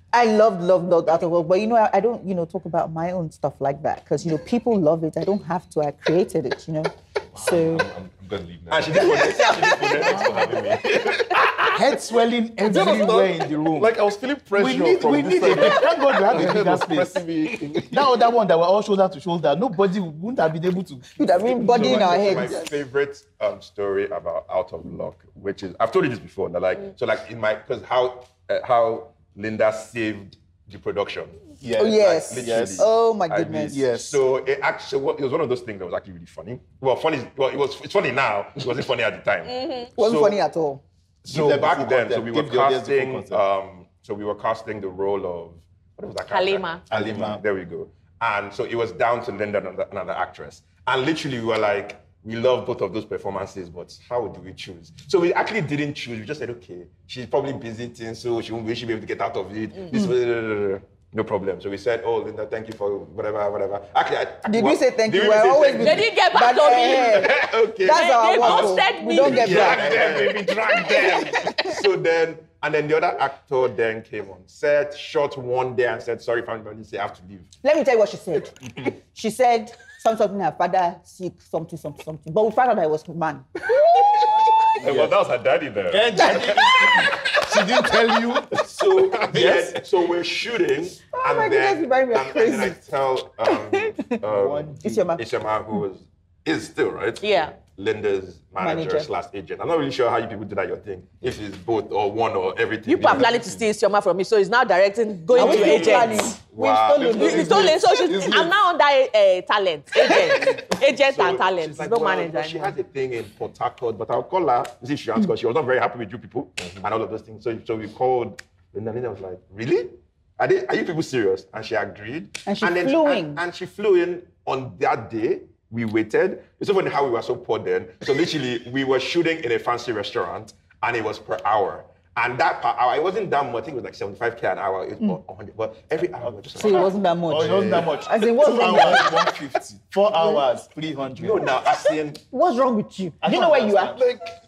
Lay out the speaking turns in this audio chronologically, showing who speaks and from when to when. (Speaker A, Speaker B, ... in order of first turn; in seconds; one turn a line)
Speaker A: 0.1-7.8
Speaker B: 7.4-11.7
Speaker C: 8.7-11.8
Speaker A: 9.7-10.1
Speaker D: 11.7-13.9
Speaker C: 12.7-15.9
Speaker B: 13.8-18.0
Speaker D: 14.6-17.2
Speaker D: 17.9-22.7
Speaker A: 21.1-22.7
Speaker C: 21.6-40.4
Speaker D: 31.6-32.9
Speaker A: 31.8-33.8
Speaker D: 33.7-34.2
Speaker E: 39.5-39.9
Speaker A: 40.0-40.8
Speaker C: 41.2-66.1
Speaker D: 41.3-43.4
Speaker E: 46.3-46.8
Speaker D: 46.9-47.4
Speaker A: 64.5-70.0
Speaker E: 65.8-67.3
Speaker C: 66.7-77.5
Speaker E: 67.8-69.8
Speaker D: 69.5-70.3
Speaker B: 69.5-71.2
Speaker A: 77.6-83.5
Speaker B: 84.8-86.7
Speaker D: 84.8-85.1
Speaker D: 85.9-88.6
Speaker C: 88.5-103.4
Speaker D: 89.2-89.8
Speaker A: 91.1-92.8
Speaker D: 94.2-95.1
Speaker A: 94.8-95.2
Speaker E: 97.2-97.5
Speaker A: 98.6-99.1
Speaker E: 102.9-106.3
Speaker B: 103.0-103.5
Speaker A: 105.3-107.8
Speaker C: 105.4-107.8
Speaker E: 107.1-112.7
Speaker D: 107.2-108.5
Speaker C: 110.4-137.9
Speaker A: 122.4-123.4
Speaker D: 136.2-141.4
Speaker A: 136.6-139.1
Speaker C: 138.5-139.0
Speaker C: 141.2-142.2
Speaker A: 142.3-144.0
Speaker D: 143.2-144.0
Speaker C: 143.9-144.3